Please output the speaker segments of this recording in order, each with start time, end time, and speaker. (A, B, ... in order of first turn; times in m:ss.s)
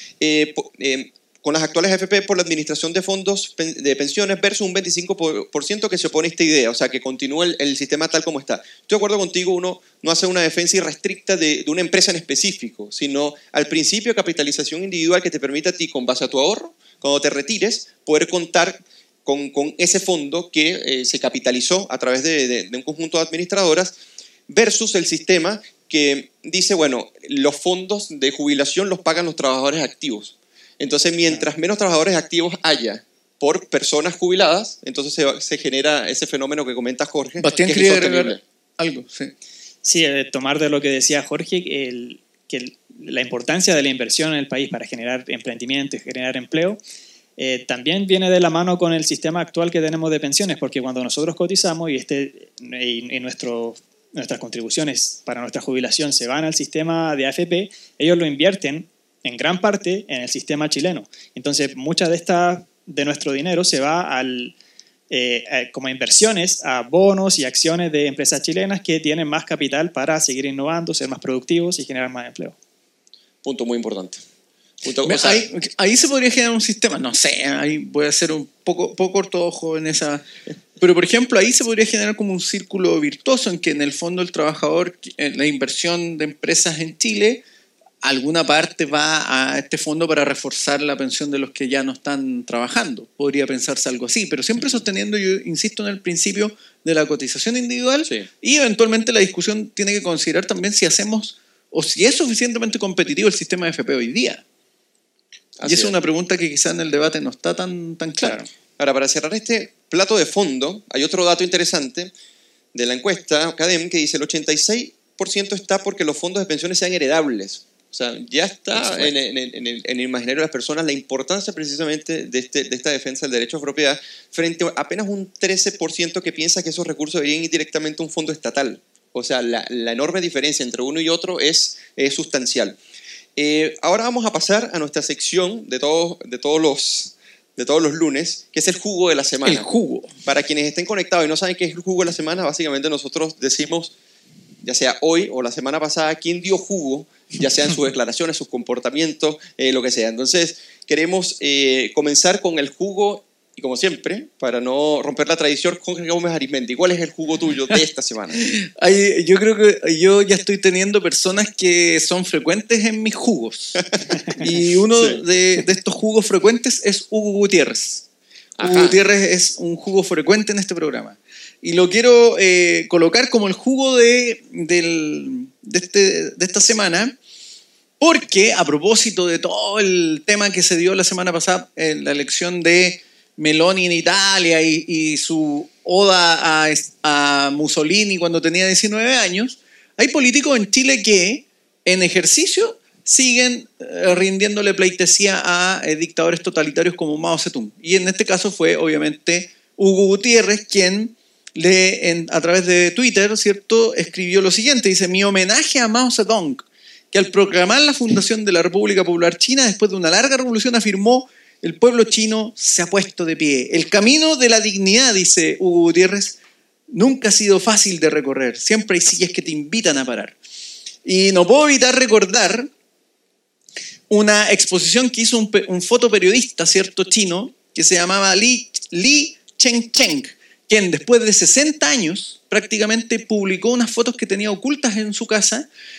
0:00.2-0:23.9 A
0:24.5-0:38.4 A
0:37.4-0:39.3 B
0:39.8-0:46.8 C
0:47.4-1:04.6 C
1:05.1-1:12.6 C
1:13.4-1:14.2 A
1:14.8-1:15.4 A
1:15.0-1:20.2 B
1:20.8-1:27.4 B
1:28.0-1:44.4 B
1:45.6-1:45.9 A
1:45.6-1:48.4 B
1:48.2-1:48.5 C
1:48.8-1:52.1 A
1:52.7-2:12.8 A
1:58.8-1:59.1 B
2:13.4-2:19.7 A
2:19.4-2:20.2 B
2:20.2-2:23.9 A
2:24.6-2:38.5 A
2:38.3-2:48.1 B
2:43.8-2:44.4 A
2:48.6-2:49.0 A
2:48.6-2:57.2 B
2:58.0-3:36.4 B
3:36.9-3:40.4 B
3:41.0-3:42.7 B
3:44.1-3:55.7 B